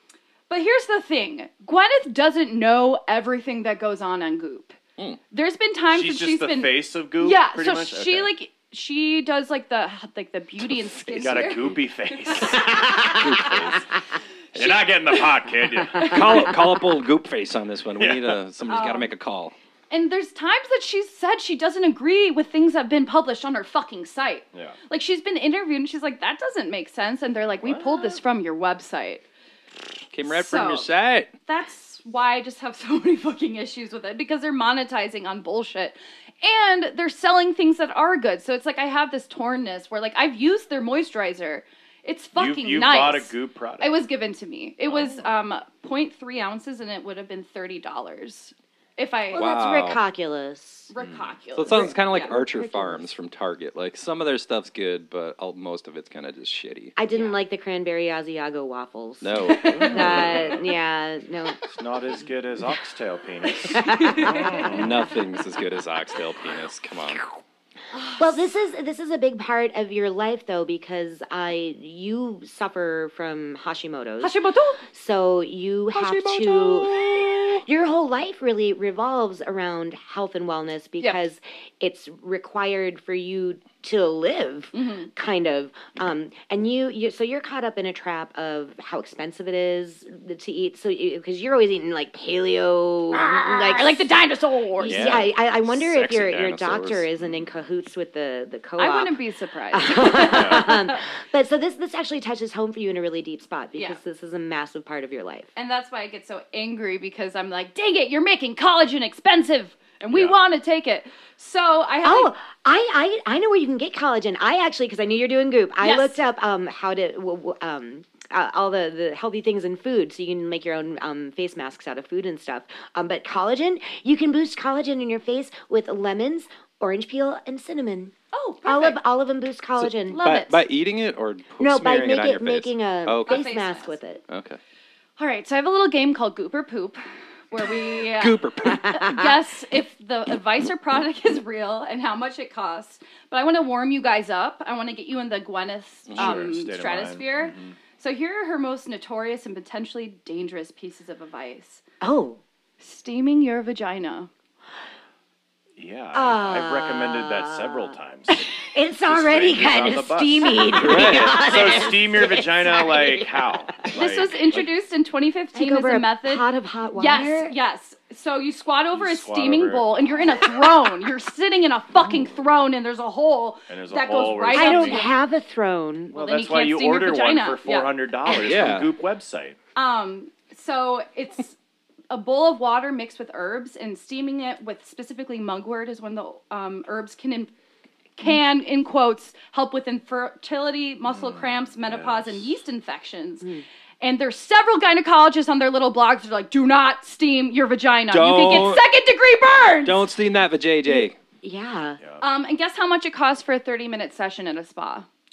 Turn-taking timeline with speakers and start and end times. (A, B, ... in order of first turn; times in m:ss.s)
0:00.5-0:04.8 A
0:05.3-0:13.6 A
0:05.9-0:08.3 B
0:11.1-0:13.7 B
0:13.2-0:13.8 C
0:14.5-0:16.5 B
0:14.6-0:15.3 A
0:16.0-0:16.3 A
0:16.0-0:19.5 C
0:18.0-0:18.4 B
0:18.7-0:19.1 A
0:19.9-0:29.2 A
0:27.6-0:28.2 B
0:30.1-0:31.3 C
0:30.3-0:30.9 A
0:31.4-0:49.4 A
0:42.3-0:44.0 B
0:44.8-0:45.3 B
0:49.3-0:50.9 D
0:49.3-0:50.0 C
0:50.9-0:52.3 A
0:51.0-0:51.3 B
0:51.5-0:56.9 C
0:51.7-0:53.1 D
0:57.0-1:01.6 D
0:59.2-1:00.6 C
0:59.7-1:00.3 B
1:01.7-1:05.0 B
1:03.6-1:04.7 D
1:04.0-1:04.6 A
1:04.7-1:07.3 C
1:08.2-1:14.3 D
1:14.2-1:14.8 A
1:14.9-1:34.0 D
1:15.9-1:17.6 A
1:24.7-1:25.1 A
1:33.1-1:35.2 A
1:34.8-1:39.2 D
1:34.8-1:37.1 C
1:37.2-1:37.4 B
1:38.8-1:41.0 A
1:39.7-1:45.5 D
1:40.2-1:40.6 B
1:45.6-1:52.3 A
1:50.1-1:50.4 B
1:52.0-2:08.1 D
1:55.8-1:56.2 A
2:08.3-2:09.0 A
2:08.6-2:10.2 D
2:09.8-2:13.4 C
2:10.1-2:10.6 A
2:11.6-2:14.2 D
2:13.2-2:14.0 A
2:14.3-2:14.6 C
2:15.2-2:17.0 A
2:17.5-2:31.8 A
2:18.1-2:19.2 C
2:18.6-2:19.3 D
2:26.1-2:26.5 C
2:26.2-2:27.8 B
2:32.0-2:32.4 D
2:32.8-2:34.3 A
2:35.8-2:38.5 B
2:36.1-2:37.9 D
2:38.5-2:43.9 D
2:39.1-2:44.6 B
2:40.7-2:41.5 C
2:43.9-2:55.1 A
2:45.5-2:47.6 D
2:48.9-2:50.4 B
2:53.7-2:55.0 B
2:54.5-2:56.2 D
2:56.1-2:59.6 B
2:56.1-2:57.9 A
2:58.2-2:58.6 D
2:58.4-2:58.9 C
2:59.8-3:01.5 A
3:02.1-3:07.5 A
3:08.2-3:13.5 A
3:11.0-3:12.5 B
3:14.0-3:20.1 A
3:18.1-3:18.8 C
3:19.8-3:21.2 C
3:20.9-3:22.0 D
3:22.2-3:25.0 A